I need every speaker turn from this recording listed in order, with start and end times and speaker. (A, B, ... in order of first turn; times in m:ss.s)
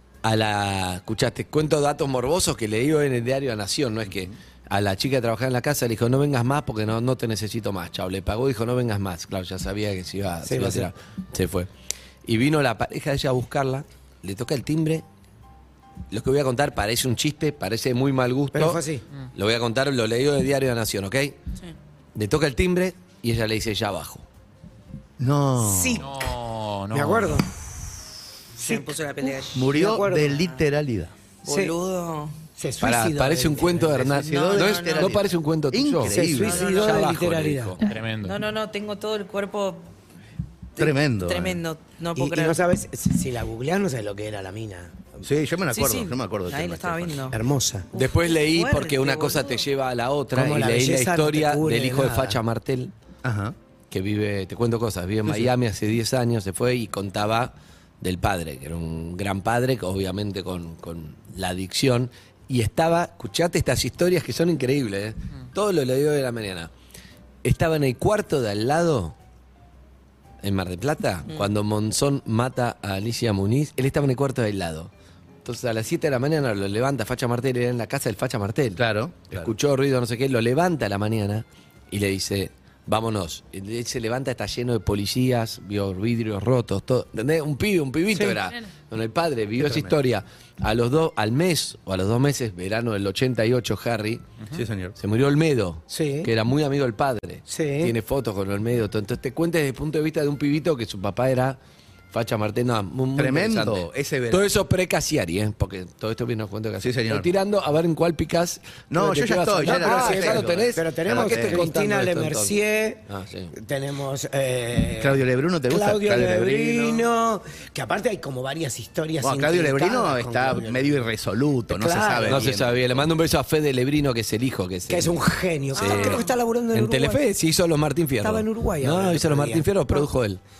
0:00.2-0:11.7 A
0:10.4-0:10.9 B
0:12.2-0:15.0 A
0:16.1-0:18.8 A
0:18.5-0:19.0 B
0:19.3-0:21.4 A
0:22.1-0:24.2 A
0:25.2-0:26.0 C
0:25.6-0:26.3 B
0:26.0-0:27.4 D
0:26.9-0:27.6 B
0:28.6-0:29.7 E
0:28.6-0:28.9 B
0:29.5-0:31.1 C
0:29.7-0:30.4 B
0:31.4-0:32.4 E
0:31.4-0:31.7 B
0:32.6-0:34.1 B
0:32.8-0:37.8 A
0:34.0-0:36.7 C
0:34.3-0:35.2 E
0:36.1-0:37.8 B
0:36.3-0:37.1 E
0:37.8-0:38.4 D
0:38.2-0:39.9 E
0:40.8-0:42.6 E
0:40.8-0:41.6 C
0:42.1-0:45.2 B
0:45.2-0:47.3 C
0:45.7-0:47.4 E
0:47.3-0:47.9 B
0:47.9-0:49.6 E
0:47.9-0:52.9 A
0:50.3-0:52.4 B
0:53.2-0:53.6 C
0:53.9-1:06.7 A
1:07.4-1:09.2 A
1:10.4-1:14.9 A
1:15.4-1:34.2 A
1:18.8-1:19.5 C
1:28.1-1:28.4 B
1:29.6-1:29.9 C
1:34.5-1:35.0 C
1:35.0-1:41.6 A
1:35.9-1:36.3 B
1:37.5-1:37.9 B
1:42.1-1:52.5 A
1:43.2-1:44.5 C
1:46.8-1:47.3 C
1:48.9-1:51.7 C
1:49.6-2:01.0 B
1:53.1-1:53.5 A
1:55.0-1:57.1 C
1:59.2-2:03.1 C
2:01.7-2:02.5 B
2:02.2-2:05.1 A
2:04.9-2:07.2 B
2:05.7-2:10.4 A
2:05.8-2:06.3 E
2:08.2-2:10.1 B